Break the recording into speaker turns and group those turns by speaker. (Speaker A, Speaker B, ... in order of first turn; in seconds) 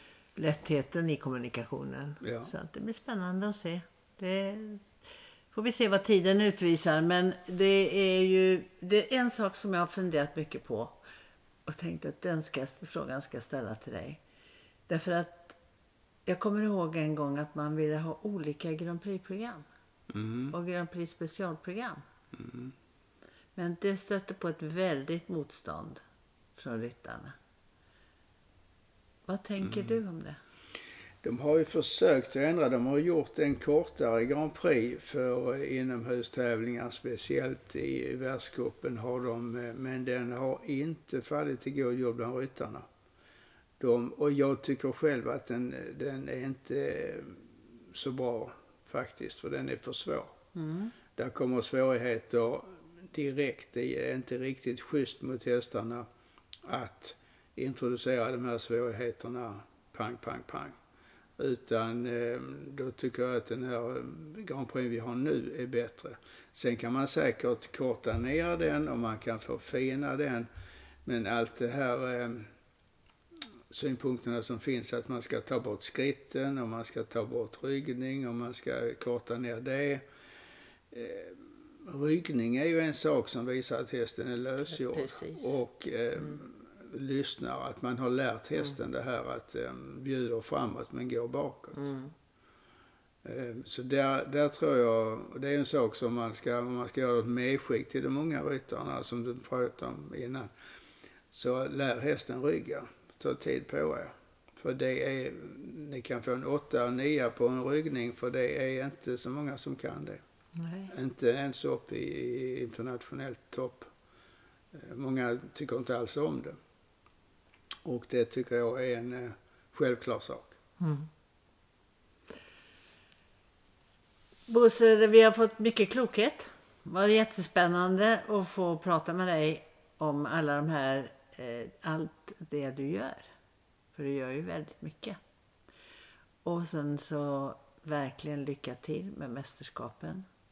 Speaker A: 0.4-5.0, 5.5-11.0, 11.7-14.2, 14.9-15.6, 16.3-19.7, 20.5-22.0, 23.6-26.0, 26.6-27.4, 29.3-30.4, 50.5-50.9, 85.0-85.5, 91.8-92.1, 110.6-110.9, 120.8-121.1, 124.5-133.3, 133.9-135.2, 136.4-140.3
Speaker B: 2.2-2.5, 20.1-20.5, 22.3-22.7, 29.6-30.0, 31.2-42.9, 43.8-50.4, 51.1-56.1, 56.6-60.8, 61.4-70.5, 71.0-72.5, 73.7-80.0, 80.9-91.9, 93.2-100.5, 101.3-110.2, 110.9-113.9, 114.7-116.6, 117.8-120.6